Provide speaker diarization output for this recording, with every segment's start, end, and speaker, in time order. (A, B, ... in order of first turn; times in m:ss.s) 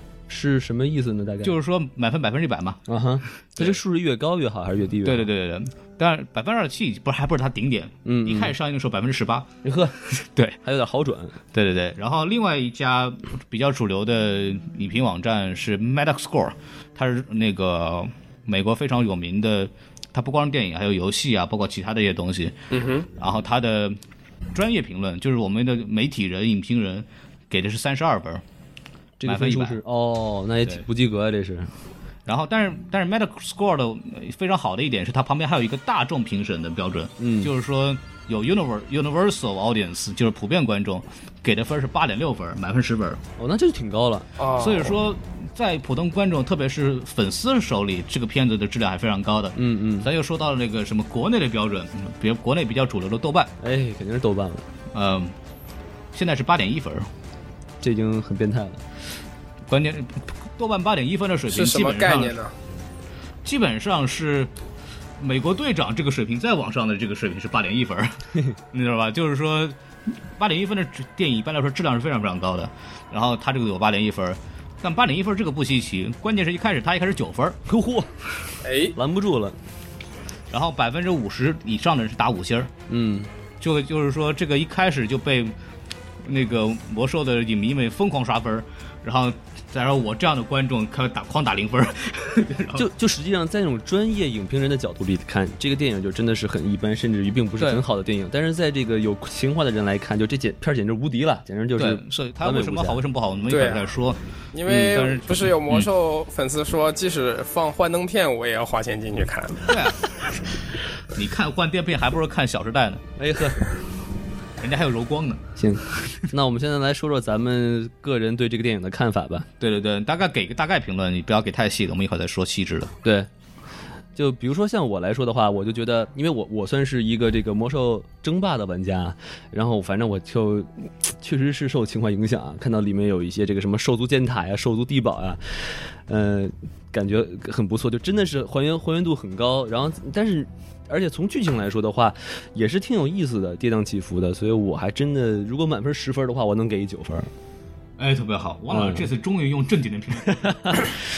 0:00.3-0:01.6 A
0:01.4-0:02.8 B
0:02.9-0:05.2 A
0:05.0-0:09.5 B
0:08.0-0:08.5 A
0:09.6-0:10.0 A
0:10.0-0:10.6 B
0:10.6-0:11.4 A
0:11.5-0:22.5 B
0:22.7-0:23.1 C
0:23.2-0:24.0 B
0:24.5-0:28.4 B
0:29.2-0:31.7 A
0:29.2-0:29.8 B
0:32.2-0:43.2 B
0:37.2-0:37.5 A
0:43.4-0:44.3 A
0:44.4-0:45.0 C
0:44.6-0:53.5 B
0:49.6-0:50.1 A
0:53.6-0:54.7 A
0:54.9-0:55.3 B
0:56.1-0:57.1 B
0:57.8-0:58.8 A
0:59.7-1:02.4 B
1:01.5-1:02.5 C
1:03.4-1:04.5 B
1:05.2-1:08.2 B
1:08.7-1:09.8 B
1:10.3-1:17.6 B
1:17.7-1:19.6 A
1:18.6-1:18.9 C
1:20.5-1:22.7 B
1:22.9-1:23.3 A
1:23.6-1:25.5 B
1:26.2-1:32.9 B
1:32.7-1:43.0 A
1:41.8-1:45.9 B
1:43.5-1:43.9 C
1:44.5-1:49.7 C
1:49.7-1:50.4 B
1:51.1-1:53.0 B
1:53.2-1:53.6 A
1:54.6-1:55.4 B
1:55.6-1:59.5 A
1:59.6-2:02.9 B
2:04.2-2:27.3 A
2:28.0-2:30.8 B
2:28.7-2:29.1 A
2:30.2-2:30.9 A